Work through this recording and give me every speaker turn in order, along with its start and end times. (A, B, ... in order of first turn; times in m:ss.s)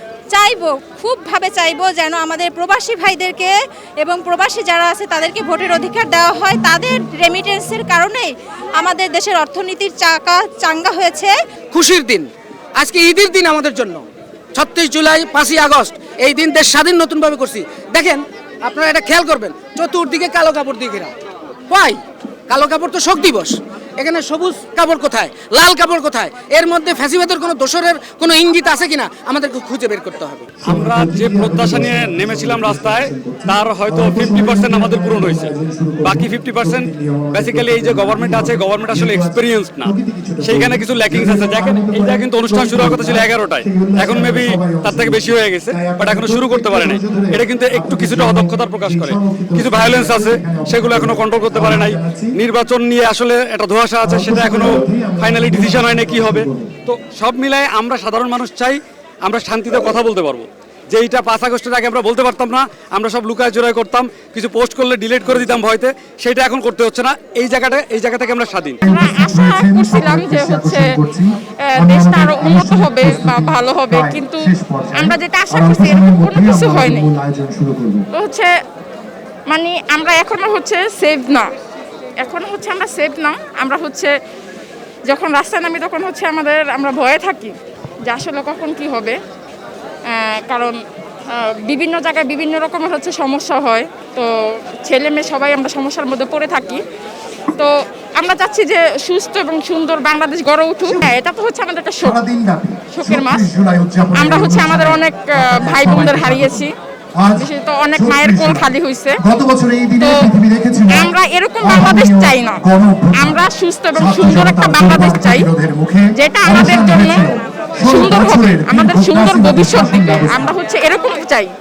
0:00.3-0:11.3 A
0:11.7-0:21.1 B
0:21.7-0:30.5 B
0:30.6-0:52.4 C
0:30.6-0:35.5 D
0:36.0-1:08.8 D
0:54.0-0:56.7 C
1:08.8-1:18.1 C
1:08.9-1:10.9 E
1:11.7-1:17.1 E
1:18.1-1:18.5 E
1:19.5-1:21.5 E
1:22.2-1:24.1 E
1:25.1-1:27.5 E
1:28.0-1:29.2 E
1:30.1-1:30.8 E
1:31.3-1:34.3 E
1:34.8-1:36.8 E
1:37.6-1:42.2 E
1:40.8-1:41.2 C
1:42.0-1:46.6 C
1:42.9-1:43.4 E
1:44.2-1:46.7 E
1:47.2-1:48.7 C
1:47.4-1:49.2 E
1:49.2-2:00.5 C
1:50.9-1:52.6 E
1:53.2-1:55.5 E
1:56.2-1:57.3 E
1:57.8-2:01.5 E